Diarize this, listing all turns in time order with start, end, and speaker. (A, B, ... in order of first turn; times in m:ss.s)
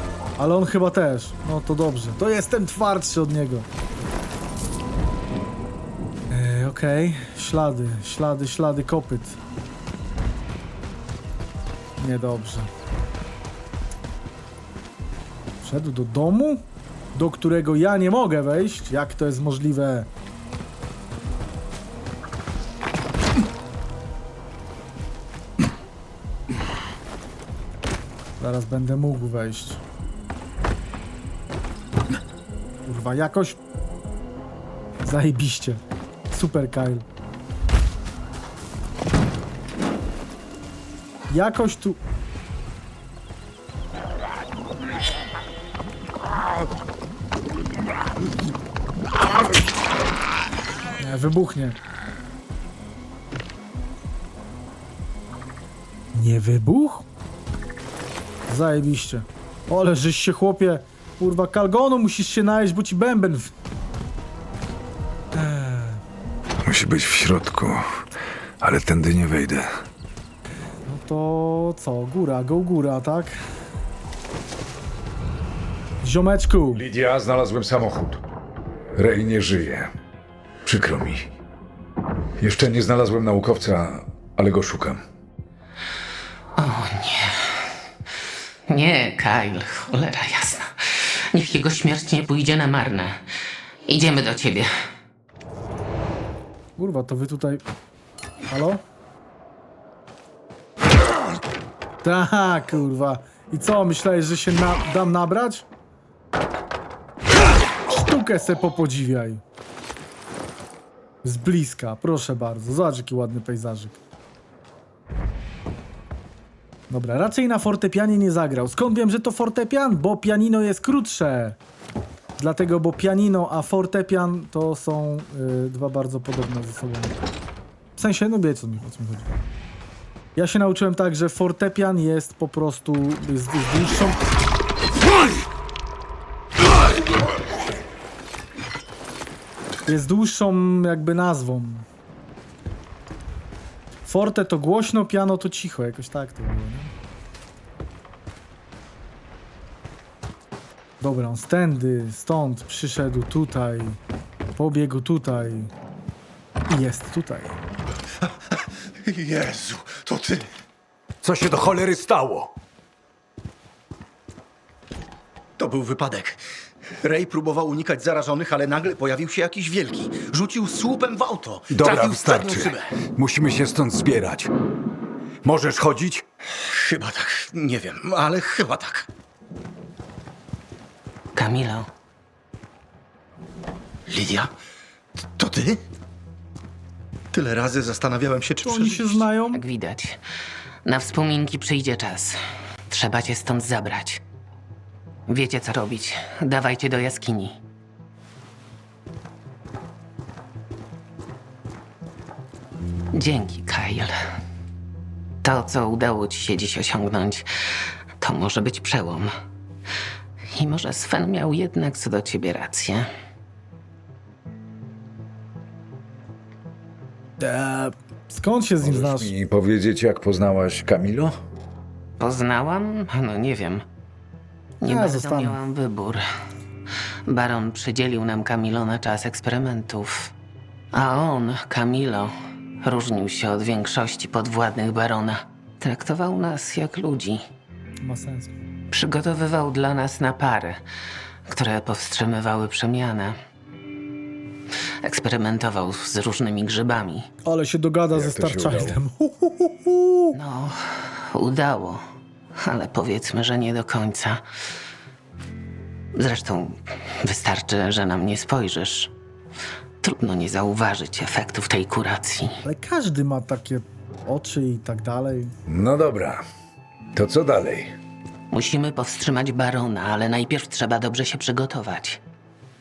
0:00.4-0:03.7 A
0:06.3-0:09.4 A
0:12.0-0:12.7 A
0:15.6-0:16.6 A
0:17.1-0:20.1 A
0:28.4-0:29.8 A
0:32.8-0:33.6 A
0:35.0-0:37.0 A
0:41.3-0:42.0 A
0:51.0-0:51.8 A
0:56.1-0:57.0 A
0:58.5-1:03.5 A
1:05.3-1:06.0 A
1:06.6-1:07.9 B
1:08.6-1:09.7 B
1:10.8-1:13.4 A
1:16.0-1:16.8 A
1:16.7-1:18.2 B
1:19.0-1:19.9 B
1:20.6-1:21.3 B
1:22.4-1:25.0 B
1:26.6-1:27.7 C
1:28.7-1:33.2 C
1:33.9-1:34.7 C
1:36.8-1:37.6 A
1:38.5-1:38.8 A
1:42.0-1:45.6 A
1:47.9-1:49.4 A
1:51.2-1:54.0 A
1:56.9-2:01.6 A
2:02.4-2:07.1 A
2:08.0-2:09.3 A
2:10.4-2:14.2 A
2:19.9-2:21.8 A
2:24.1-2:26.9 A
2:31.0-2:34.0 A
2:34.6-2:35.7 A
2:36.7-2:37.6 A
2:39.0-2:40.5 D
2:41.2-2:42.5 B
2:45.6-2:46.4 D
2:47.0-2:52.9 D
2:51.7-2:54.5 B
2:55.4-2:56.2 B
2:56.6-2:59.1 D
3:01.4-3:01.9 C
3:04.1-3:04.5 D
3:05.3-3:05.8 D
3:07.3-3:09.3 D
3:08.6-3:09.6 A
3:09.5-3:10.2 C
3:10.8-3:14.2 C
3:15.3-3:17.6 C
3:23.1-3:24.2 C
3:25.4-3:29.3 C
3:30.5-3:33.1 C
3:37.4-3:39.3 A
3:38.8-3:41.3 B
3:42.2-3:43.8 C
3:44.8-3:46.2 C
3:44.8-3:45.6 A
3:47.3-3:50.3 C
3:50.9-3:57.4 C
3:58.0-3:58.5 A
3:58.9-4:00.8 C
4:01.5-4:03.4 C
4:05.0-4:07.3 C
4:07.4-4:10.3 A
4:08.1-4:09.0 B
4:10.3-4:12.0 C
4:12.6-4:14.4 C
4:16.1-4:19.1 C
4:20.0-4:22.6 C
4:22.6-4:25.5 A
4:25.7-4:26.4 B
4:27.1-4:28.0 B
4:28.5-4:32.2 C